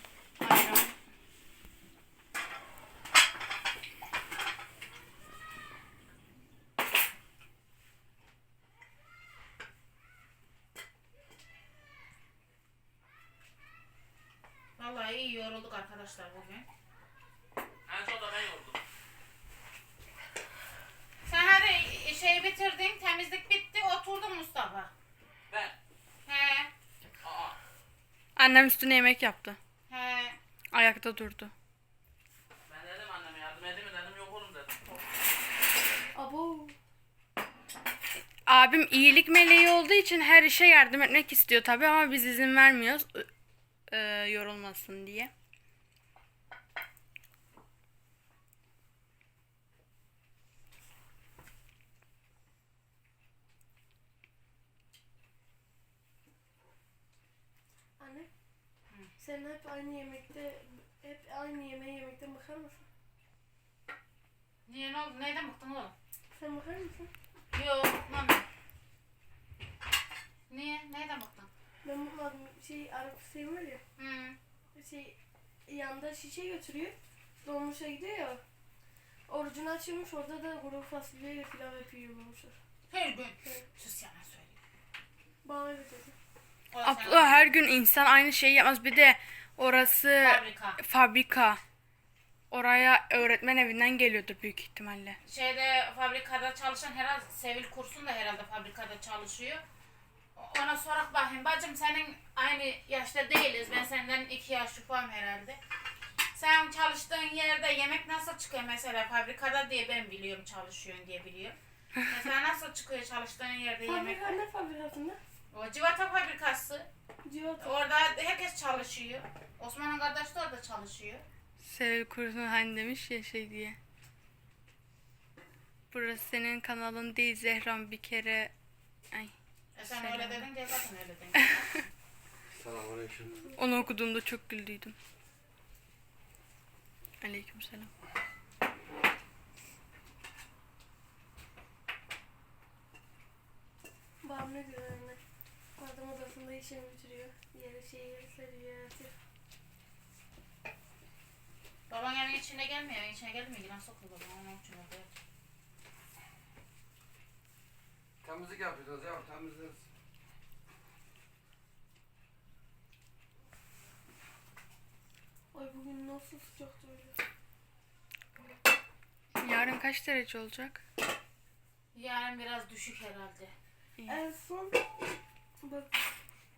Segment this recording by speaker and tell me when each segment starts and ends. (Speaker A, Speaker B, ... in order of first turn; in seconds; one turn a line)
Speaker A: 0.4-0.9
Speaker A: 14.8-16.6
Speaker B: 17.9-18.8
Speaker A: 21.2-24.9
Speaker B: 25.5-25.7
Speaker A: 26.2-26.7
Speaker B: 27.2-27.6
Speaker C: 28.4-29.6
Speaker A: 29.9-30.4
Speaker C: 30.7-31.5
Speaker B: 32.7-35.0
Speaker D: 36.1-36.8
Speaker C: 38.5-43.3
Speaker C: 43.9-45.3
Speaker D: 58.0-58.3
Speaker D: 59.2-62.9
Speaker A: 64.7-65.9
Speaker D: 66.3-67.1
Speaker A: 67.5-68.4
Speaker A: 70.5-71.5
Speaker D: 71.8-73.8
Speaker A: 74.0-74.4
Speaker D: 74.7-78.4
Speaker D: 79.3-82.6
Speaker A: 82.9-84.6
Speaker D: 85.4-86.2
Speaker A: 86.7-87.5
Speaker C: 86.8-91.6
Speaker A: 90.2-90.8
Speaker C: 92.5-95.2
Speaker A: 95.2-99.6
Speaker A: 100.3-105.6
Speaker A: 106.3-114.4
Speaker D: 113.8-115.2
Speaker A: 115.5-116.9
Speaker D: 117.2-117.8
Speaker A: 117.6-121.2
Speaker C: 121.6-123.8
Speaker C: 125.9-128.5
Speaker C: 129.1-130.4
Speaker A: 129.8-131.9
Speaker E: 132.6-133.4
Speaker C: 133.5-134.9
Speaker C: 137.2-137.9
Speaker D: 144.2-145.2
Speaker D: 145.8-149.1
Speaker A: 151.9-155.1
Speaker E: 158.2-159.8
Speaker D: 165.5-167.2
Speaker C: 169.4-170.8
Speaker A: 171.9-173.5
Speaker D: 174.1-174.9
Speaker D: 175.6-176.0